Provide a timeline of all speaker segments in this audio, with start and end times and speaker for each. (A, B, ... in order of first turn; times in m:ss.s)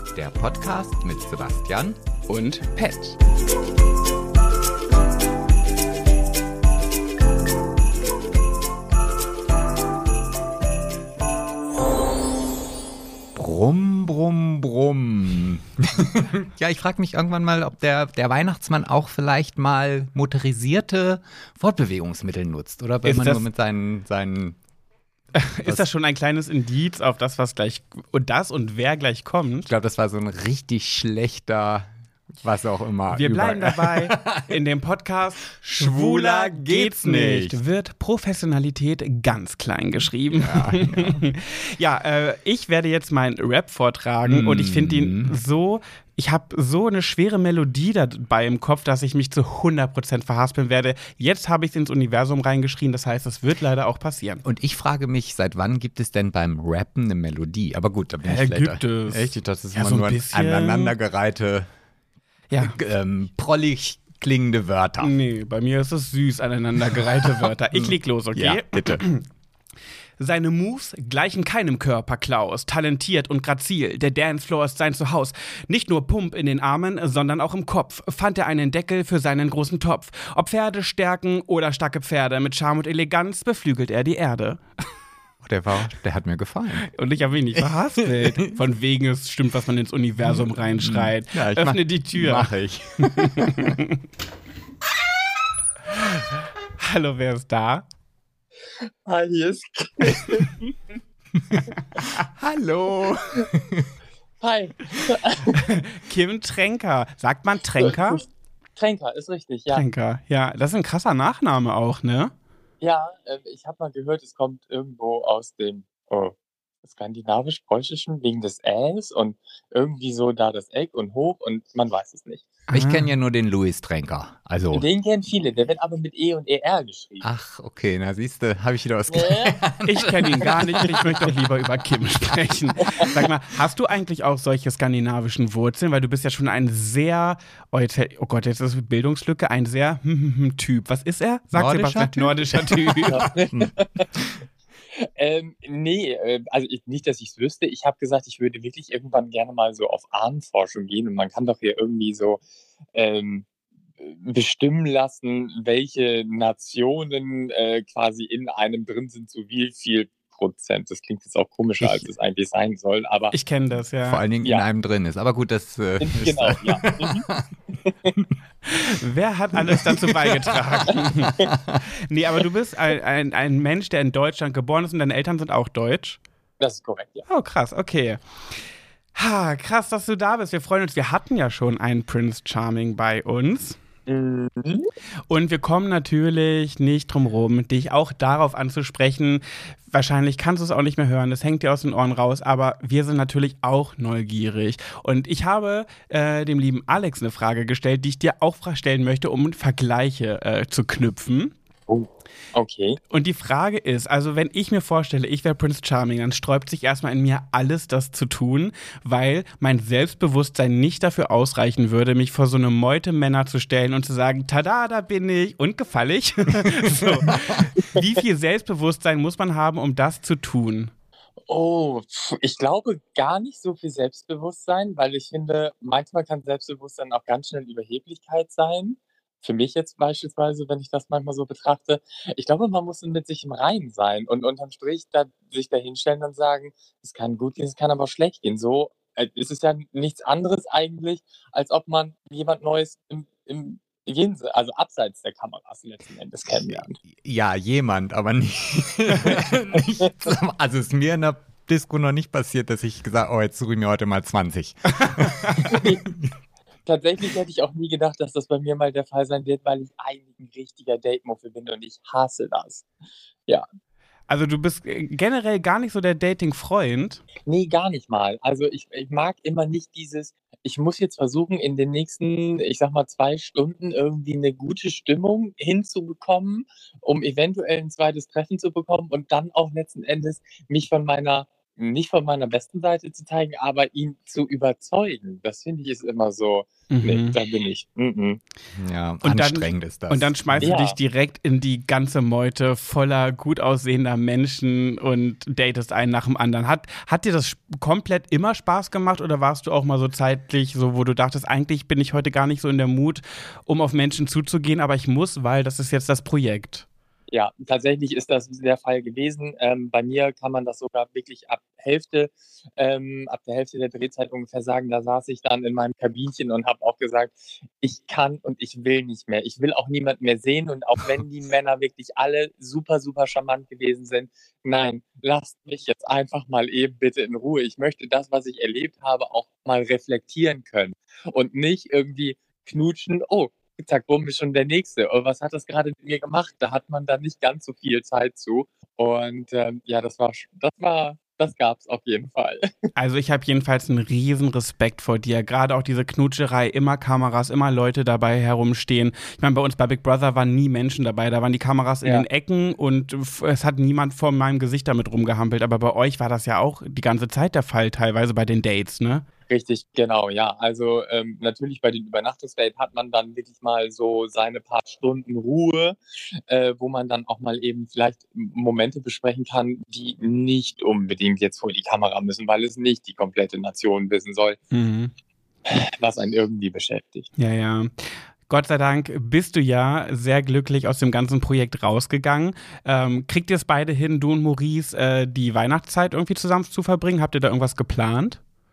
0:00.1-0:02.0 A
0:02.3-0:03.2 B
0:13.4-0:24.6 A
0:23.0-0:23.5 B
0:25.3-0:29.7 B
0:29.7-0:31.9 A
0:32.4-0:34.6 A
0:33.1-0:54.4 B
0:35.7-0:37.6 A
0:40.4-0:41.2 A
0:44.2-0:45.4 A
0:54.4-1:01.7 A
0:58.2-1:01.0 B
1:02.5-1:02.8 B
1:02.6-1:05.1 A
1:05.0-1:09.2 B
1:07.8-1:09.0 A
1:10.2-1:24.6 B
1:25.4-1:26.9 A
1:26.9-1:32.5 B
1:28.0-1:28.2 A
1:30.2-1:33.5 A
1:33.2-1:34.0 B
1:36.8-1:37.8 B
1:39.0-1:40.7 C
1:42.0-1:43.9 A
1:44.4-1:45.6 C
1:45.5-1:48.2 B
1:47.8-1:48.2 C
1:48.8-1:49.8 C
1:49.7-1:52.3 B
1:52.8-2:02.5 C
2:02.7-2:03.1 B
2:02.7-2:04.9 A
2:04.7-2:07.3 C
2:07.2-2:10.9 A
2:09.1-2:09.6 C
2:09.9-2:23.3 B
2:21.5-2:23.0 A
2:23.1-2:24.1 C
2:25.0-2:32.4 C
2:32.9-2:33.5 C
2:34.0-2:43.3 C
2:41.8-2:42.1 A
2:43.3-2:44.2 B
2:44.0-2:47.5 A
2:44.4-2:44.7 C
2:46.0-2:47.2 C
2:47.8-2:48.1 C
2:48.6-2:51.5 B
2:49.7-2:50.4 A
2:50.9-2:51.5 C
2:52.1-2:56.2 B
2:56.6-2:57.2 C
2:57.3-2:58.2 B
2:59.1-3:03.8 B
3:04.1-3:04.9 C
3:05.3-3:21.5 B
3:21.9-3:23.0 C
3:23.1-3:40.9 B
3:41.5-4:07.0 C
4:07.2-4:15.8 A
4:09.7-4:10.3 C
4:15.2-4:15.7 B
4:15.6-4:16.0 C
4:16.8-4:22.9 C
4:24.3-4:27.2 B
4:27.4-4:48.4 C
4:46.9-4:47.3 B
4:48.7-4:50.7 A
4:49.2-5:06.8 B
4:50.6-4:51.0 C
5:07.3-5:42.7 C
5:43.0-5:59.2 B
5:59.5-6:14.6 C
6:14.7-6:15.1 B
6:15.6-6:17.3 C
6:17.4-6:17.9 B
6:18.5-6:28.4 B